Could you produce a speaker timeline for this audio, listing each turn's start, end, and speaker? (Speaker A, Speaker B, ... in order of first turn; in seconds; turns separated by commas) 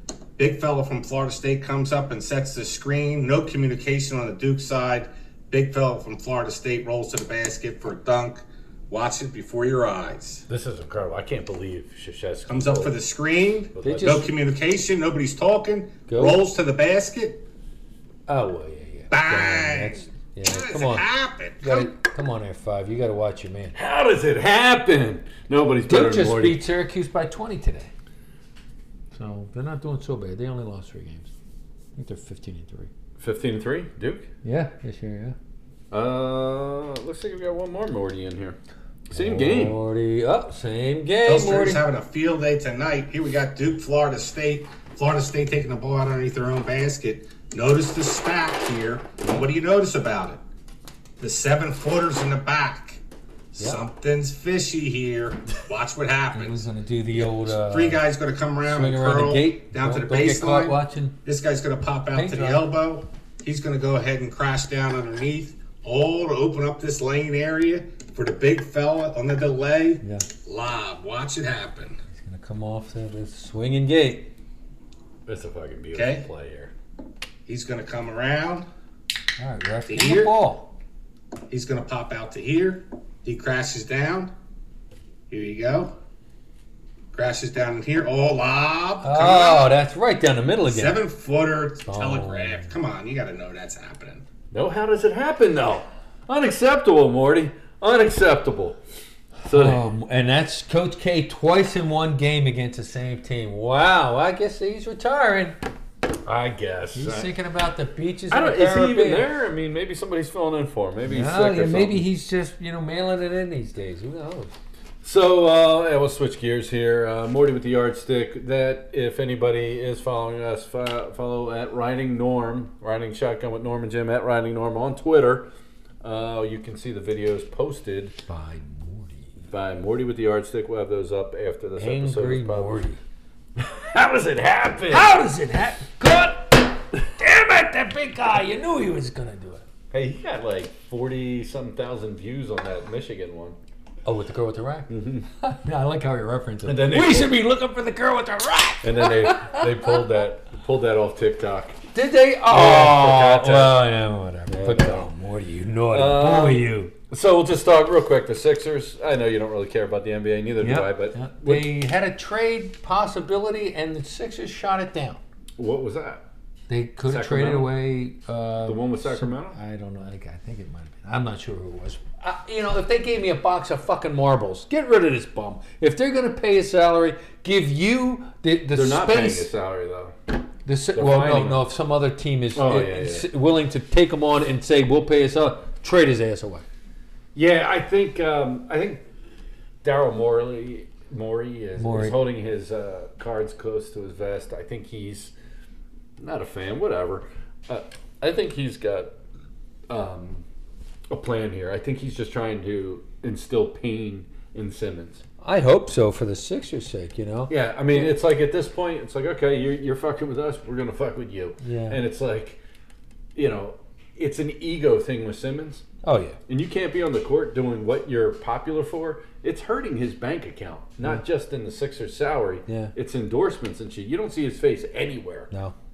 Speaker A: 0.4-10.4, Speaker B: 10.5-13.0, Speaker A: 12.5-17.4, Speaker B: 13.7-14.2, Speaker C: 13.8-14.3, Speaker C: 16.1-16.4, Speaker C: 18.3-21.0, Speaker A: 19.1-22.0, Speaker C: 21.6-23.7, Speaker B: 23.7-26.6, Speaker C: 25.8-27.9, Speaker C: 29.1-31.3, Speaker C: 31.9-32.9, Speaker B: 33.2-34.3, Speaker C: 34.4-35.4, Speaker B: 35.9-38.6, Speaker B: 39.1-39.8, Speaker C: 39.1-41.8, Speaker A: 41.2-50.4, Speaker A: 51.2-53.0, Speaker A: 53.5-56.6, Speaker C: 56.3-58.0, Speaker A: 57.2-72.0, Speaker C: 58.6-61.1, Speaker C: 62.1-62.7, Speaker C: 72.1-74.3, Speaker B: 75.3-76.7, Speaker A: 75.9-76.2, Speaker A: 77.5-78.7, Speaker C: 79.4-80.7, Speaker A: 79.9-80.3, Speaker A: 81.5-84.3, Speaker A: 85.3-85.9, Speaker A: 87.1-89.7, Speaker C: 89.0-91.0, Speaker A: 90.6-94.2, Speaker C: 91.9-92.7, Speaker B: 94.5-98.8, Speaker B: 99.4-99.8, Speaker C: 99.5-105.6, Speaker B: 106.2-107.3, Speaker C: 106.9-109.3, Speaker B: 108.3-112.0, Speaker C: 111.0-114.5, Speaker B: 115.0-125.5, Speaker B: 126.0-128.2, Speaker C: 128.3-129.3, Speaker B: 129.5-132.8, Speaker C: 131.8-133.0, Speaker B: 133.6-135.1, Speaker C: 134.9-139.6, Speaker B: 139.9-143.6, Speaker C: 144.0-144.9, Speaker B: 144.9-145.3, Speaker C: 145.4-150.0, Speaker B: 146.6-147.3, Speaker B: 148.8-151.8, Speaker C: 151.9-156.9, Speaker B: 152.5-153.8, Speaker B: 154.5-155.1, Speaker B: 155.9-161.7, Speaker C: 160.6-165.2, Speaker B: 165.6-166.2, Speaker C: 166.7-179.5, Speaker B: 167.1-167.7, Speaker B: 168.6-169.6, Speaker B: 178.7-180.2, Speaker C: 180.6-186.6, Speaker B: 180.9-181.7, Speaker B: 182.5-183.3, Speaker B: 187.3-189.0, Speaker B: 189.8-195.3, Speaker C: 191.8-192.2, Speaker B: 196.2-199.1, Speaker B: 199.9-200.4, Speaker B: 201.1-205.2, Speaker C: 205.4-208.1, Speaker B: 207.5-212.6, Speaker C: 211.6-212.0, Speaker B: 213.3-215.8, Speaker C: 216.0-216.4, Speaker B: 216.5-225.5, Speaker C: 222.7-222.9